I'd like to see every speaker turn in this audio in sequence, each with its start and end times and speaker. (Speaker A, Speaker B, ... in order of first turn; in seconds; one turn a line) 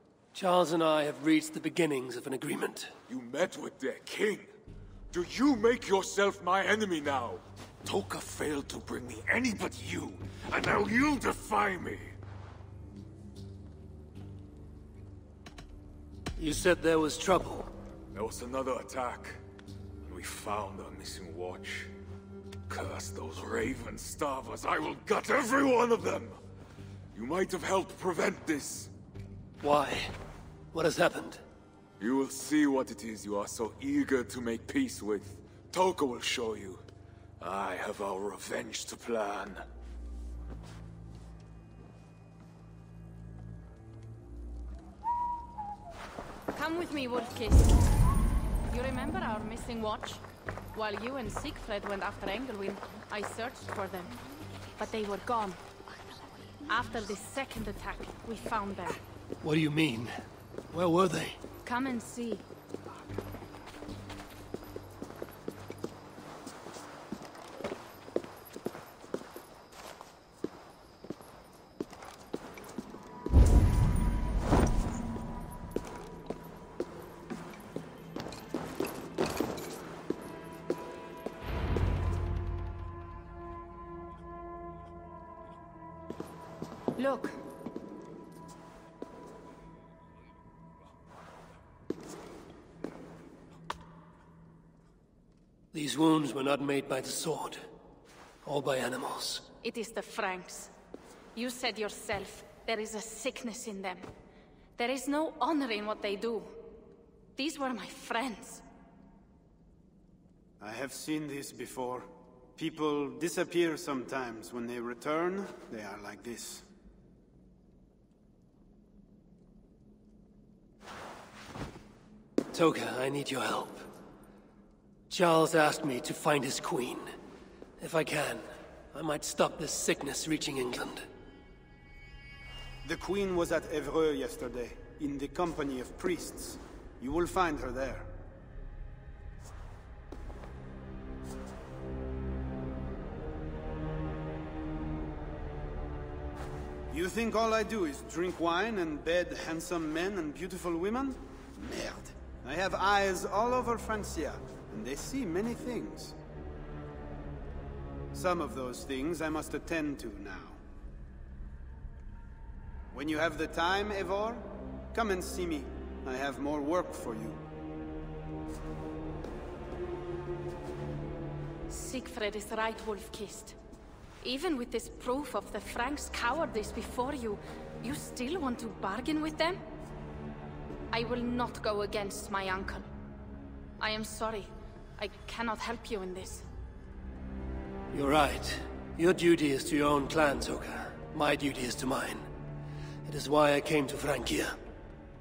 Speaker A: 0.3-2.9
Speaker B: 3.1-4.5
Speaker B: 5.1-12.1
Speaker A: 16.4-17.7
Speaker B: 18.1-19.4
Speaker B: 20.0-21.9
Speaker B: 22.7-26.4
Speaker B: 27.1-28.9
Speaker A: 29.6-30.1
Speaker A: 30.7-31.4
Speaker B: 32.0-36.8
Speaker B: 37.4-39.6
Speaker C: 46.5-47.8
Speaker C: 48.7-54.1
Speaker C: 54.8-55.6
Speaker C: 56.6-59.0
Speaker A: 59.4-60.1
Speaker A: 60.7-61.4
Speaker C: 61.6-62.4
Speaker C: 87.0-87.3
Speaker A: 95.7-97.6
Speaker A: 98.4-99.5
Speaker C: 99.6-100.7
Speaker C: 101.3-104.0
Speaker C: 104.8-106.5
Speaker C: 107.3-108.6
Speaker D: 110.6-116.7
Speaker A: 122.5-123.9
Speaker A: 125.1-127.1
Speaker A: 127.8-131.0
Speaker D: 132.8-138.1
Speaker D: 146.9-156.2
Speaker D: 158.1-160.6
Speaker D: 162.9-167.4
Speaker C: 171.7-173.6
Speaker C: 174.2-179.6
Speaker C: 180.9-182.8
Speaker C: 183.8-186.4
Speaker A: 187.9-192.3
Speaker A: 193.0-194.6